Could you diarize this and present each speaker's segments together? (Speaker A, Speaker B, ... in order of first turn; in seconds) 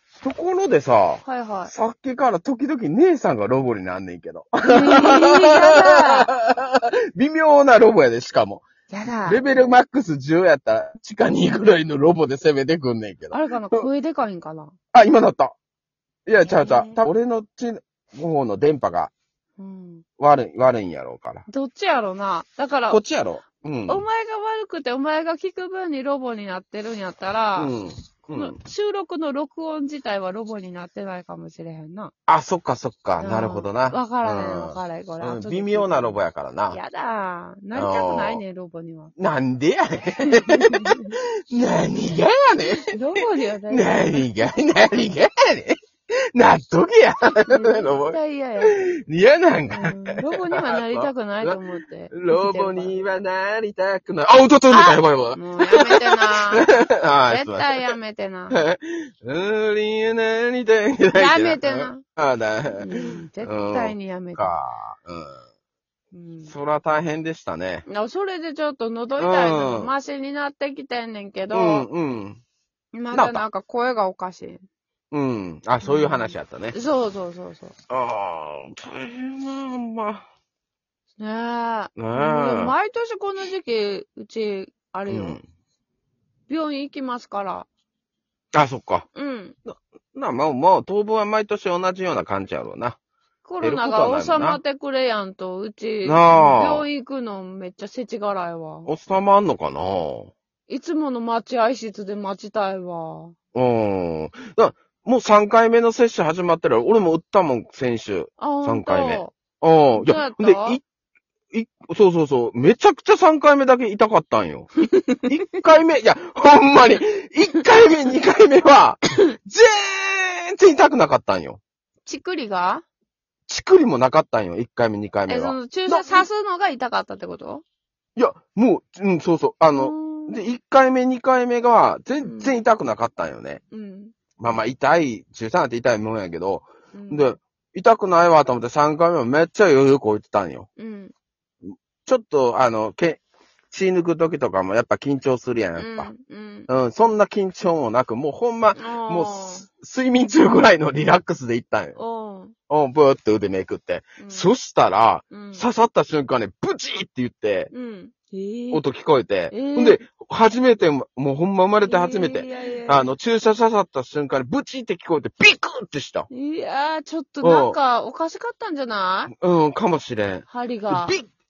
Speaker A: 0.2-8.7, 9.2-13.9, 14.9-15.6, 16.3-19.1, 20.2-21.4, 22.9-24.1, 27.6-28.6, 32.3-36.8, 37.7-38.4, 39.2-45.8, 46.3-57.9, 58.5-65.5, 66.5-67.8, 69.2-69.9, 71.5-72.4, 73.1-73.4, 75.1-76.8, 77.9-80.2, 82.0-82.8, 85.1-85.4, 88.5-89.1, 89.7-93.0, 93.6-94.6, 96.0-96.9, 98.9-100.3, 103.5-110.8, 111.5-121.6, 123.5-126.3, 128.2-133.6, 134.4-140.7, 141.7-143.2, 143.7-146.1, 146.7-152.0, 152.7-157.7, 158.7-166.3, 167.4-167.8, 169.3-171.3
Speaker B: 1.2-1.7, 4.7-6.3, 8.9-9.4, 13.3-14.8, 16.5-17.1, 19.6-20.0, 21.5-23.0, 23.9-27.7, 28.3-32.1, 33.2-36.2, 36.7-39.1, 40.1-41.2, 42.8-44.3, 47.5-48.9, 49.7-53.0, 54.7-56.7, 57.3-58.6, 61.1-62.0, 62.7-64.4, 66.1-66.5, 67.9-71.9, 72.9-74.6, 75.8-77.8, 81.2-85.4, 86.5-87.7, 89.2-89.6, 93.5-98.9, 100.7-103.3, 108.4-109.3, 109.9-110.8, 122.0-122.8, 125.3-127.6, 129.8-130.4, 132.2-132.6, 133.7-134.2, 136.9-137.3, 140.8-141.1, 145.8-146.7, 148.8-149.7, 152.0-152.6, 154.2-154.5, 155.3-155.6, 157.7-158.8, 159.5-160.0, 161.8-163.1, 166.3-169.3, 170.5-171.2